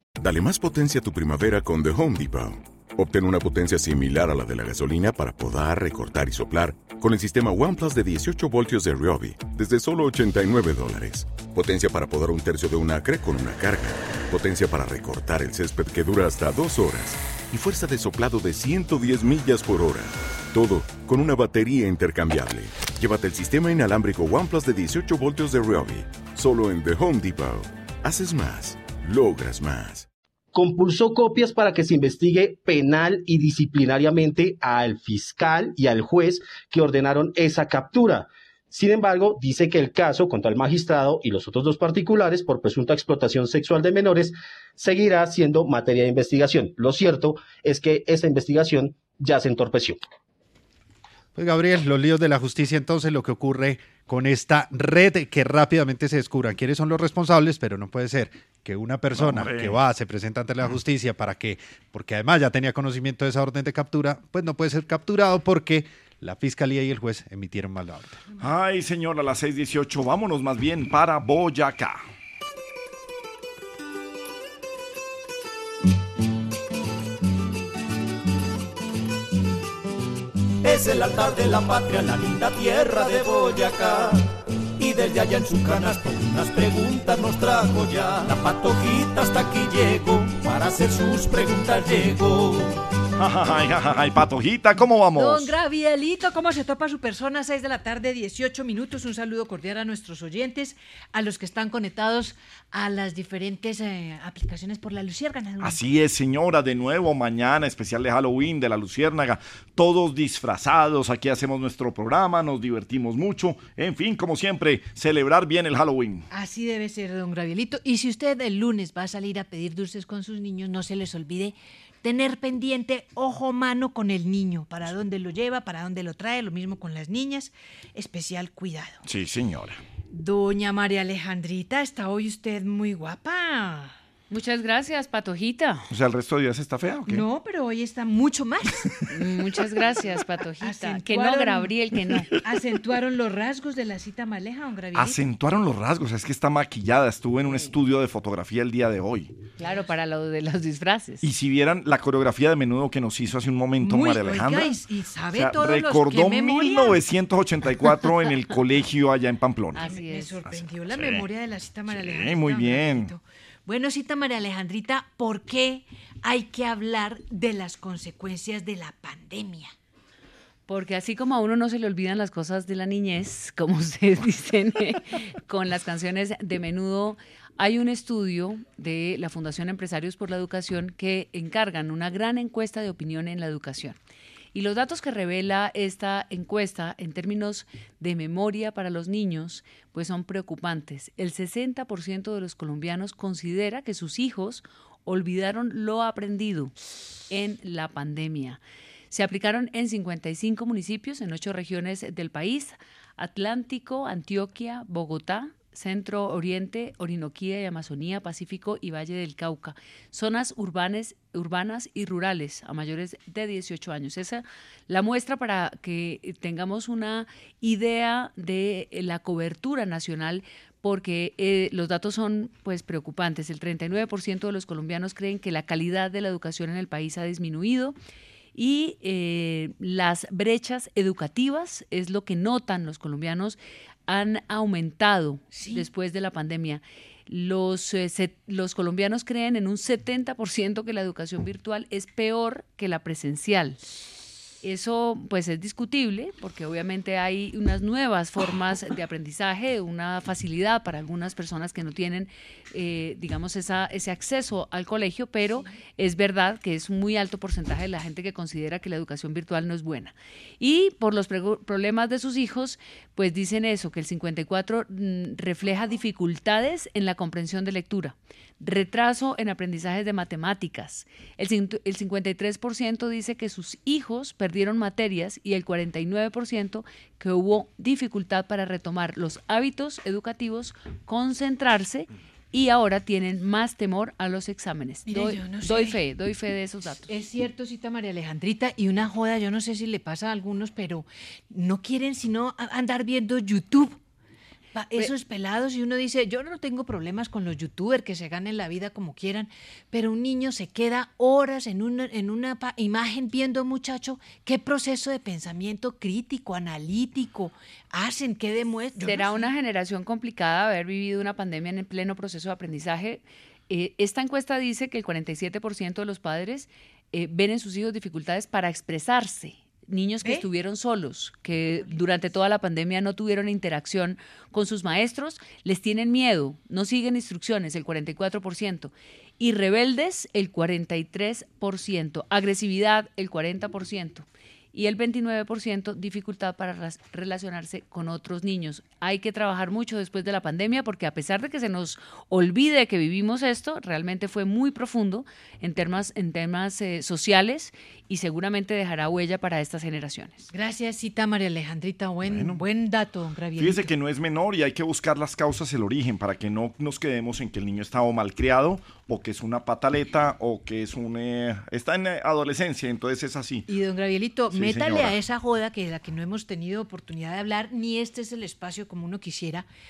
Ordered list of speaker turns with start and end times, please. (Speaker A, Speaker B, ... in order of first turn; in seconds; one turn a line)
Speaker A: 0.2-30.1
Speaker B: 30.5-50.0
Speaker C: 51.4-68.2
Speaker D: 59.1-59.8
Speaker D: 68.4-72.0
Speaker E: 80.6-84.3
Speaker E: 84.8-92.7
Speaker D: 93.2-95.5
Speaker F: 95.2-105.8
Speaker D: 105.6-116.3
Speaker F: 116.3-129.0
Speaker D: 129.0-129.8
Speaker F: 130.1-133.9
Speaker G: 134.3-135.9
Speaker D: 135.9-137.3
Speaker F: 137.1-139.2
Speaker G: 139.1-142.3
Speaker F: 140.6-145.3
Speaker D: 144.9-149.3
Speaker G: 149.6-151.2
Speaker D: 151.2-154.8
Speaker F: 153.8-157.0
Speaker D: 155.3-159.9
Speaker G: 159.8-160.4
Speaker F: 159.8-169.7
Speaker D: 160.5-161.3
Speaker D: 161.9-163.1
Speaker G: 170.7-184.0
Speaker G: 184.5-196.7
Speaker G: 197.3-227.9
Speaker G: 228.6-243.8
Speaker F: 235.5-235.9
Speaker G: 244.6-287.1
Speaker F: 285.1-286.0
Speaker F: 287.1-294.0
Speaker F: 294.8-309.5
Speaker G: 309.0-350.5
Speaker F: 350.5-353.9
Speaker D: 352.2-352.6
Speaker D: 353.6-363.7
Speaker F: 363.7-369.7
Speaker D: 364.5-365.2